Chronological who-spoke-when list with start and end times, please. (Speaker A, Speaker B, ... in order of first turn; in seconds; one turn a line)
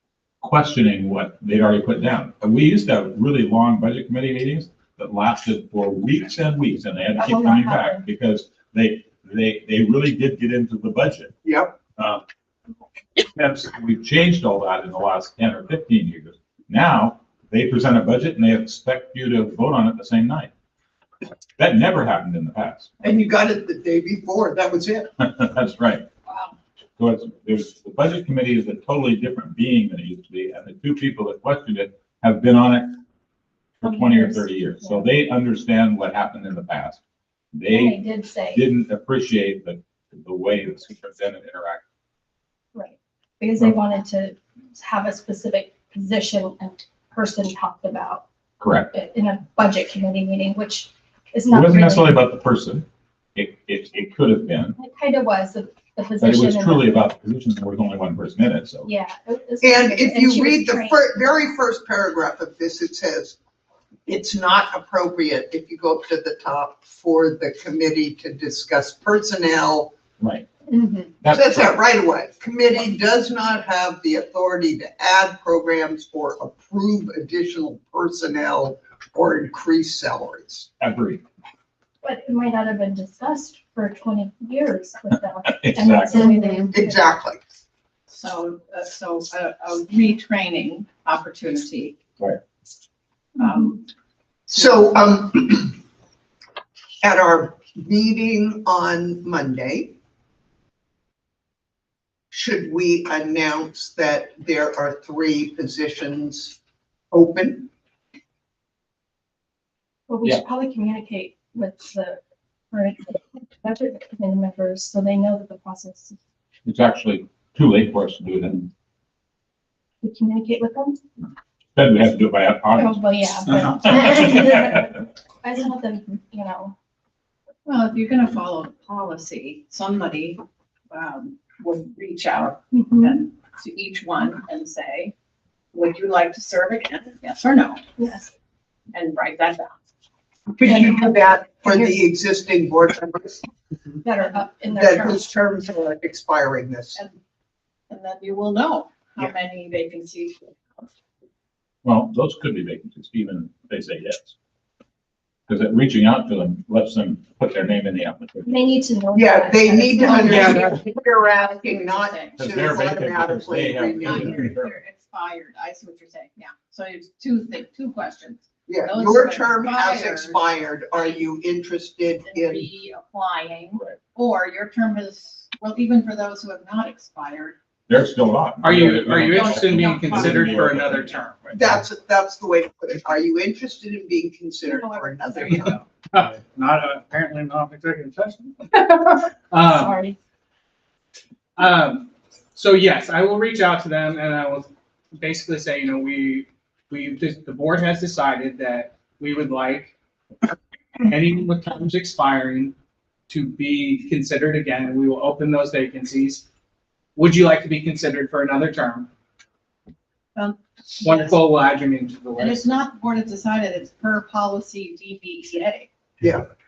Speaker A: 0.4-11.3
Speaker B: 7.2-8.0
Speaker C: 11.4-11.8
Speaker A: 12.0-12.2
Speaker A: 13.3-20.5
Speaker A: 21.6-22.9
Speaker C: 23.0-25.1
Speaker A: 25.2-26.0
Speaker D: 26.3-26.5
Speaker A: 27.0-33.0
Speaker A: 33.8-37.0
Speaker B: 33.8-35.1
Speaker A: 37.5-38.0
Speaker B: 37.7-38.6
Speaker A: 38.5-41.8
Speaker B: 42.7-48.2
Speaker A: 48.6-48.9
Speaker B: 48.9-52.2
Speaker A: 51.5-54.8
Speaker B: 54.8-57.0
Speaker A: 56.2-58.9
Speaker B: 58.8-61.5
Speaker C: 59.6-63.4
Speaker C: 64.1-69.9
Speaker A: 70.2-70.5
Speaker D: 70.7-71.1
Speaker A: 71.2-71.8
Speaker C: 71.3-80.7
Speaker A: 80.8-81.2
Speaker B: 82.0-87.1
Speaker A: 85.4-86.3
Speaker C: 86.7-87.4
Speaker D: 88.1-92.0
Speaker B: 93.4-93.7
Speaker D: 93.4-93.8
Speaker C: 94.5-95.8
Speaker C: 97.0-100.0
Speaker C: 102.3-106.6
Speaker C: 107.1-107.7
Speaker B: 110.1-112.2
Speaker B: 112.7-116.2
Speaker A: 116.6-118.7
Speaker B: 120.0-121.0
Speaker A: 121.7-124.7
Speaker B: 122.8-126.7
Speaker D: 127.7-135.1
Speaker B: 132.7-133.2
Speaker D: 135.7-137.9
Speaker B: 137.9-138.3
Speaker D: 138.9-139.8
Speaker C: 140.5-143.4
Speaker B: 140.7-142.0
Speaker B: 144.0-145.2
Speaker C: 144.7-147.0
Speaker D: 147.9-150.8
Speaker A: 151.8-154.3
Speaker A: 155.5-158.6
Speaker B: 158.4-160.6
Speaker C: 159.1-164.5
Speaker D: 160.0-162.4
Speaker E: 160.3-160.8
Speaker A: 162.4-164.8
Speaker D: 164.0-170.4
Speaker C: 168.7-172.7
Speaker D: 172.2-177.6
Speaker A: 177.9-181.6
Speaker E: 178.6-181.3
Speaker D: 179.2-180.7
Speaker C: 181.5-185.8
Speaker D: 184.7-185.7
Speaker E: 185.5-189.9
Speaker B: 189.6-190.2
Speaker E: 191.6-199.9
Speaker E: 201.0-202.7
Speaker E: 203.3-206.4
Speaker E: 207.2-209.1
Speaker D: 210.3-211.4
Speaker E: 211.0-212.7
Speaker D: 212.4-215.9